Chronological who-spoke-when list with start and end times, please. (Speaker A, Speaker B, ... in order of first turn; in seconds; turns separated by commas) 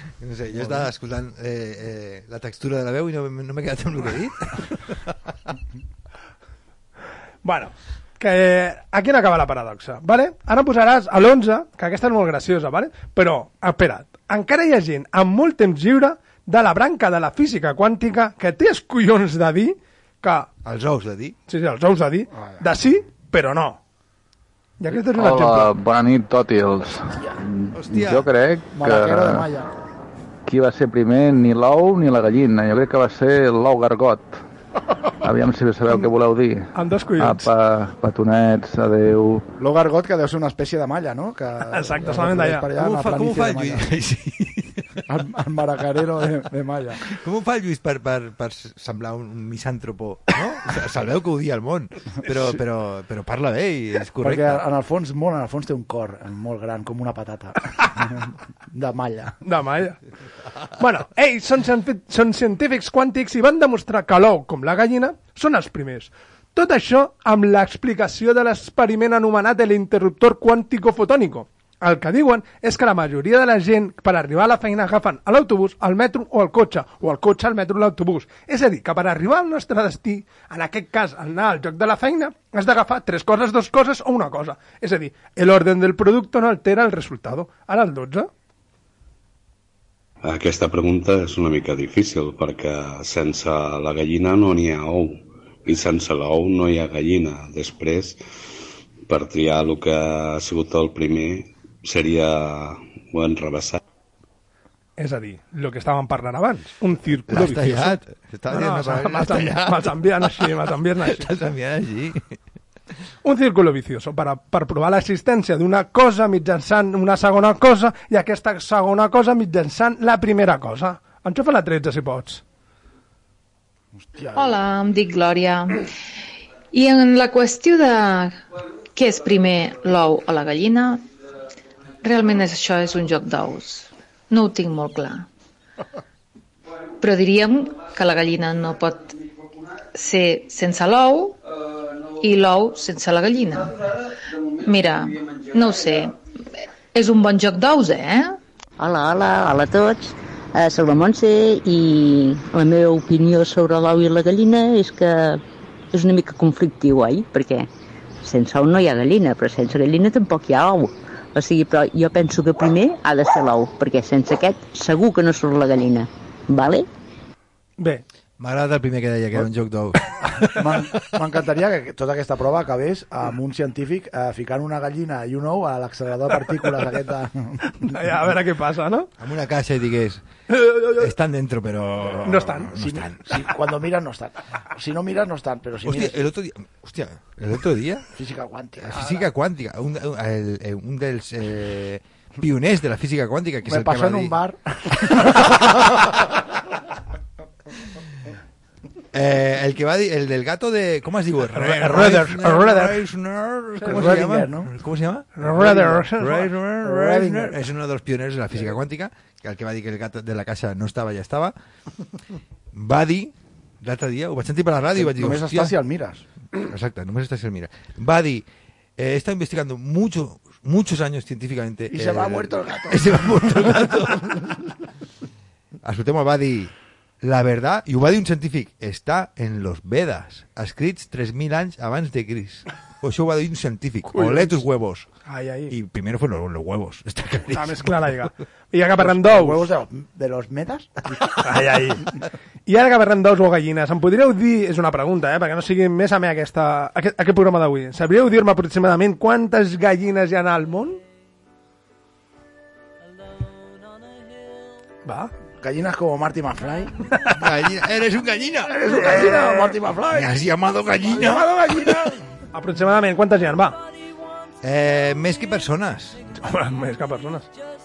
Speaker A: 0.2-5.1, Speaker B: 0.5-0.9, Speaker C: 7.4-20.5, Speaker A: 20.6-21.4, Speaker C: 21.5-23.8, Speaker B: 22.3-22.6, Speaker C: 24.8-25.7, Speaker D: 25.1-29.5, Speaker A: 27.7-28.3, Speaker B: 28.7-29.7, Speaker D: 30.5-34.4, Speaker D: 35.2-39.5, Speaker C: 36.7-37.5, Speaker B: 39.6-43.9, Speaker C: 41.7-42.7, Speaker A: 42.8-44.8, Speaker B: 45.1-47.0, Speaker A: 47.1-54.6, Speaker B: 54.2-59.4, Speaker C: 59.4-60.0, Speaker C: 60.8-88.3, Speaker E: 90.2-98.2, Speaker E: 99.1-103.8, Speaker C: 105.0-108.0, Speaker A: 107.3-110.4, Speaker C: 108.5-111.3, Speaker A: 111.1-112.3, Speaker C: 113.2-122.4, Speaker B: 124.0-124.6, Speaker F: 124.3-125.8, Speaker F: 126.7-128.4, Speaker F: 128.9-131.0, Speaker F: 132.0-135.3, Speaker F: 137.0-139.2, Speaker F: 139.9-141.4, Speaker F: 142.2-143.8, Speaker F: 144.6-146.1, Speaker F: 146.9-148.4, Speaker G: 148.8-155.1, Speaker G: 155.9-157.7, Speaker G: 158.3-166.8, Speaker A: 168.4-170.0, Speaker B: 170.2-177.6, Speaker C: 177.8-179.1, Speaker A: 179.2-180.2, Speaker C: 180.5-181.1, Speaker A: 181.0-183.4, Speaker C: 182.2-182.7, Speaker B: 182.7-186.2, Speaker A: 185.8-188.1, Speaker B: 188.2-189.3, Speaker A: 188.8-194.3, Speaker B: 193.7-195.7, Speaker A: 199.1-211.5, Speaker C: 201.6-202.9, Speaker C: 203.8-204.2, Speaker B: 203.8-204.7, Speaker C: 205.4-206.5, Speaker B: 206.8-207.6, Speaker A: 212.7-215.8, Speaker B: 215.0-216.2, Speaker A: 216.6-218.4, Speaker A: 219.0-224.6, Speaker B: 221.9-224.1, Speaker A: 225.8-235.1, Speaker C: 234.1-234.6, Speaker C: 235.3-235.7, Speaker A: 235.7-238.2, Speaker C: 237.5-239.6, Speaker B: 239.0-241.2, Speaker C: 241.4-242.0, Speaker C: 242.7-251.0, Speaker B: 255.6-256.9, Speaker A: 257.4-259.4, Speaker B: 258.7-260.3, Speaker C: 258.9-259.7, Speaker A: 260.1-261.9, Speaker B: 261.1-262.1, Speaker C: 262.5-263.8, Speaker A: 264.6-266.2, Speaker C: 266.4-267.5